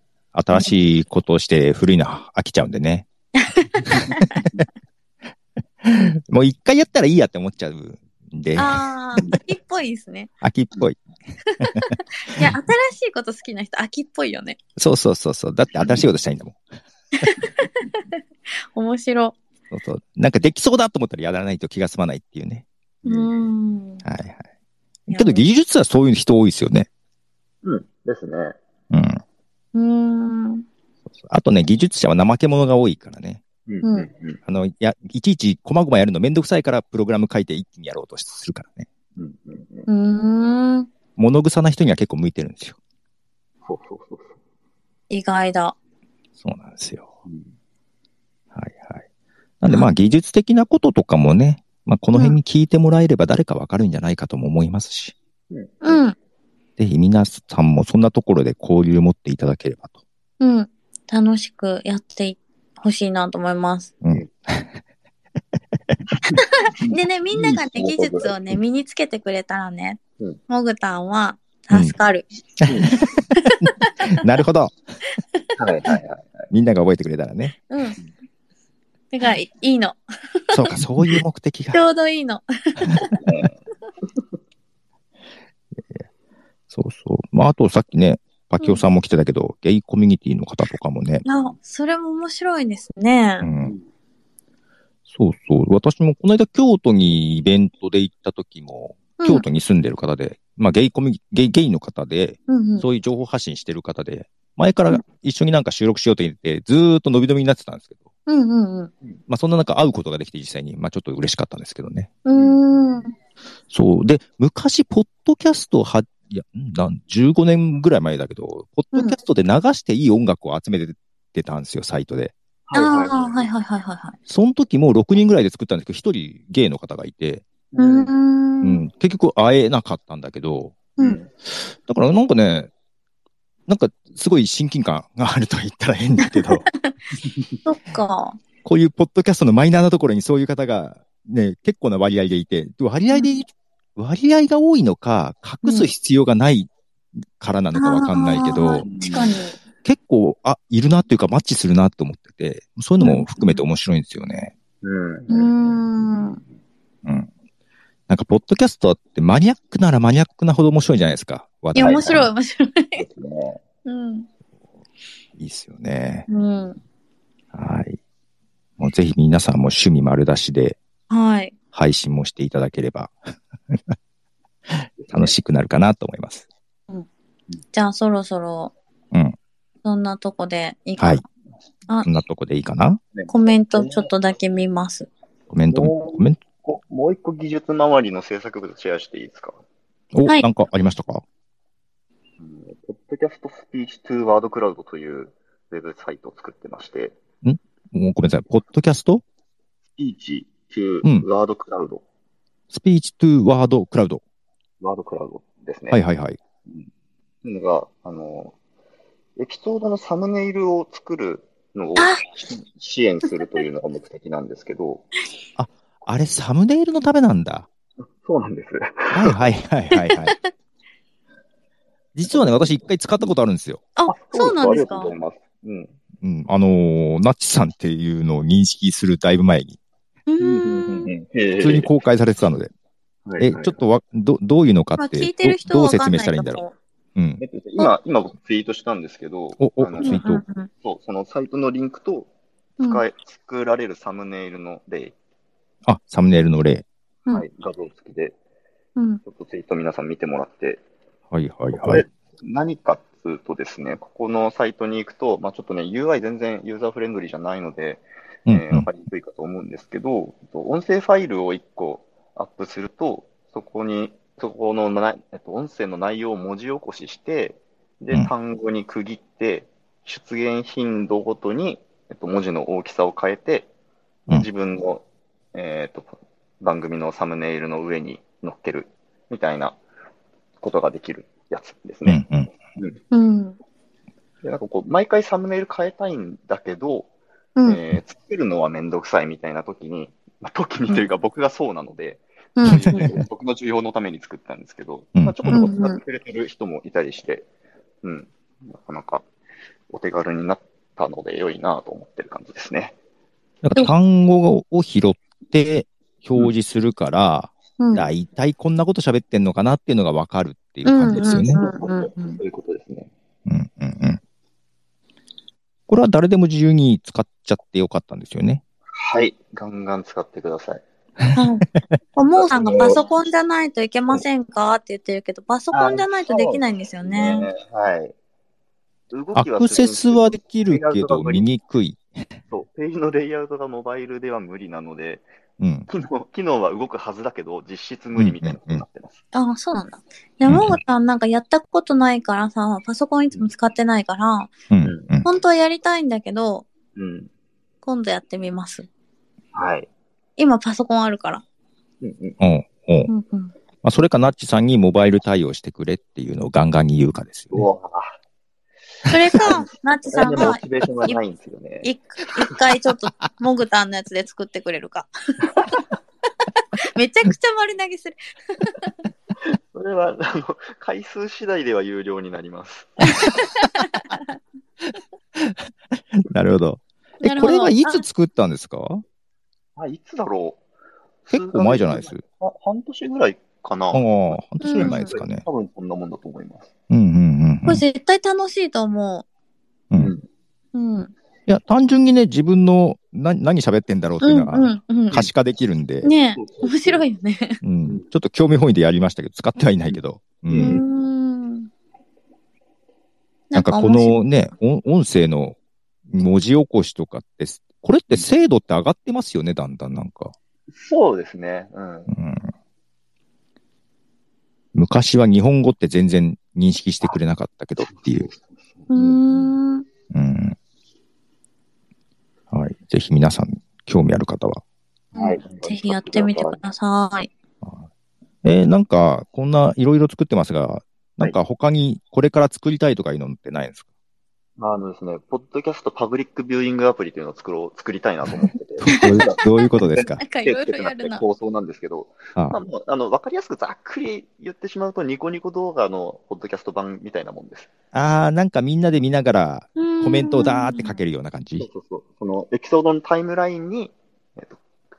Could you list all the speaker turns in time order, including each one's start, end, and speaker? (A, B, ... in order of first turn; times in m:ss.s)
0:00.3-0:03.1 A
0:03.4-0:04.5 B
0:05.8-0:08.8 A
0:08.6-0:10.3 B
0:10.4-0:11.0 A
0:11.6-0:14.6 B
0:11.6-0:12.5 A
0:14.8-0:16.6 A
0:17.2-0:18.1 B
0:18.7-0:19.4 B
0:19.7-0:22.6 A
0:23.0-0:23.3 C
0:23.0-0:24.0 B
0:24.0-0:24.4 A
0:25.1-0:25.4 B
0:25.1-0:26.9 A
0:27.6-0:28.6 C
0:28.9-0:29.2 A
0:29.7-0:30.6 B
0:31.2-0:33.4 A
0:33.7-0:34.4 C
0:33.8-0:34.1 B
0:34.5-0:38.9 A
0:39.2-0:39.9 C
0:39.9-0:40.9 B
0:41.2-0:42.8 A
0:43.6-0:44.4 C
0:45.1-0:45.8 B
0:46.4-0:47.1 A
0:48.5-0:49.0 A
0:49.6-0:55.1 A
0:49.7-0:49.9 B
0:55.5-0:56.0 C
0:55.8-0:56.2 B
0:56.8-0:59.9 A
1:00.4-1:03.9 B
1:04.0-1:04.7 A
1:06.3-1:12.3 B
1:06.8-1:08.4 C
1:12.7-1:13.0 C
1:13.3-1:13.9 B
1:13.6-1:14.8 A
1:15.6-1:16.5 C
1:16.5-1:17.6 A
1:17.7-1:18.0 B
1:19.1-1:20.6 B
1:20.5-1:21.8 A
1:21.7-1:23.2 B
1:23.2-1:23.6 C
1:26.7-1:31.2 A
1:31.2-1:33.5 B
1:33.4-1:33.8 A
1:35.1-1:48.0 A
1:39.2-1:39.4 B
1:42.5-1:42.9 B
1:48.3-1:48.9 B
1:49.3-1:52.1 A
1:52.3-1:53.1 B
1:52.3-1:52.6 C
1:53.7-2:02.3 A
2:02.7-2:03.4 C
2:02.7-2:04.2 B
2:04.3-2:07.4 A
2:07.7-2:08.1 C
2:07.8-2:08.8 B
2:08.6-2:10.9 A
2:11.0-2:11.3 C
2:11.7-2:12.7 A
2:13.7-2:16.7 A
2:16.2-2:16.9 B
2:17.6-2:18.4 B
2:18.6-2:26.7 A
2:25.6-2:25.9 B
2:27.4-2:28.9 A
2:27.8-2:29.6 B
2:28.8-2:29.3 C
2:29.8-2:34.5 A
2:33.0-2:33.6 B
2:34.8-2:35.7 C
2:35.3-2:36.4 B
2:38.1-2:42.3 A
2:41.8-2:43.0 B
2:41.8-2:42.2 C
2:43.0-2:43.6 C
2:43.8-2:44.3 B
2:45.4-2:46.3 A
2:46.3-2:46.8 B
2:47.5-2:48.0 A
2:48.8-2:50.8 A
2:51.1-2:51.5 B
2:51.7-2:53.1 A
2:55.0-2:55.3 C
2:55.1-2:56.5 A
2:57.7-2:58.7 B
2:59.8-3:01.2 B
3:01.0-3:01.2 A
3:02.0-3:03.0 A
3:03.1-3:04.1 C
3:03.3-3:05.1 B
3:05.5-3:06.4 A
3:05.7-3:09.6 C
3:10.1-3:11.2 A
3:12.4-3:17.2 C
3:17.4-3:19.2 A
3:20.0-3:22.0 C
3:22.7-3:24.2 A
3:24.8-3:26.0 C
3:25.9-3:26.4 A
3:27.4-3:28.6 C
3:29.4-3:35.1 C
3:32.0-3:32.3 B
3:35.6-3:37.7 A
3:38.0-3:39.3 C
3:39.1-3:40.4 A
3:39.9-3:40.5 B
3:42.2-3:43.8 A
3:42.3-3:43.3 C
3:44.0-3:45.1 B
3:44.1-3:46.0 C
3:46.2-3:49.8 A
3:50.3-3:51.1 B
3:50.4-3:51.9 C
3:51.6-3:52.7 A
3:53.3-3:53.8 C
3:53.4-3:56.6 A
3:55.0-3:56.8 B
3:57.2-3:57.4 A
3:57.4-4:00.2 C
3:59.6-4:00.4 A
4:00.0-4:00.7 B
4:00.8-4:02.3 C
4:02.8-4:05.2 C
4:05.9-4:06.9 A
4:07.3-4:08.4 C
4:09.0-4:09.2 B
4:09.2-4:10.8 C
4:11.3-4:12.0 A
4:11.7-4:33.7 C
4:18.5-4:18.9 A
4:34.3-4:39.8 C
4:40.6-4:42.2 C
4:42.1-4:42.5 A
4:43.1-4:43.6 B
4:44.4-4:47.1 C
4:47.6-4:57.5 C
4:52.6-4:53.1 B
4:52.7-4:53.2 A
4:55.2-4:55.6 A
4:55.5-4:56.0 B
4:58.0-4:59.3 C
4:59.9-5:02.9 C
5:03.6-5:11.6 A
5:07.8-5:08.1 B
5:10.8-5:12.4 B
5:11.0-5:13.1 C
5:13.5-5:14.2 A
5:15.9-5:18.6 A
5:18.9-5:20.8 C
5:21.4-5:27.5 B
5:22.3-5:23.0 C
5:25.7-5:28.1 C
5:29.1-5:31.5 C
5:29.4-5:32.0 A
5:32.5-5:35.3 C
5:35.6-5:35.9 A
5:35.9-5:39.2 C
5:38.2-5:38.8 A
5:39.3-5:44.5 B
5:40.5-5:40.8 A
5:44.7-5:45.3 A
5:44.8-5:45.1 C
5:45.2-5:46.7 B
5:47.0-5:47.3 C
5:47.8-5:48.9 B
5:49.5-5:49.9 C
5:50.4-5:51.4 B
5:52.0-5:52.4 C
5:52.4-5:53.1 A
5:53.1-5:53.5 B
5:53.8-5:57.7 A
5:57.5-5:58.2 C
5:59.1-6:01.2 B
5:59.1-5:59.4 A
5:59.4-6:01.9 C
6:01.8-6:05.1 B
6:07.0-6:08.9 B
6:09.6-6:13.2 C
6:13.0-6:14.4 B
6:14.8-6:19.0 A
6:17.2-6:18.0 B
6:19.8-6:20.6 C
6:21.3-6:26.7 C
6:21.3-6:22.2 A
6:23.9-6:25.4 A
6:24.6-6:25.1 B
6:26.9-6:27.8 A
6:27.7-6:29.2 B
6:30.0-6:30.3 C
6:30.7-6:31.1 B
6:31.5-6:36.1 A
6:34.2-6:35.2 B
6:36.0-6:37.6 B
6:36.4-6:37.1 C
6:37.6-6:40.8 A
6:40.5-6:40.8 C
6:40.6-6:41.7 B
6:43.5-6:44.2 B
6:43.5-6:45.6 A
6:46.1-6:50.3 A
6:50.7-6:52.1 C
6:52.1-6:52.5 A
6:54.7-6:58.3 A
6:57.8-6:59.6 C
6:58.9-6:59.9 B
7:00.1-7:00.6 A
7:02.5-7:04.6 A
7:05.1-7:06.6 C
7:05.1-7:07.3 B
7:08.4-7:13.8 A
7:14.6-7:27.7 C
7:18.8-7:20.2 A
7:19.0-7:21.2 B
7:27.9-7:31.7 A
7:29.8-7:31.0 B
7:31.6-7:34.6 C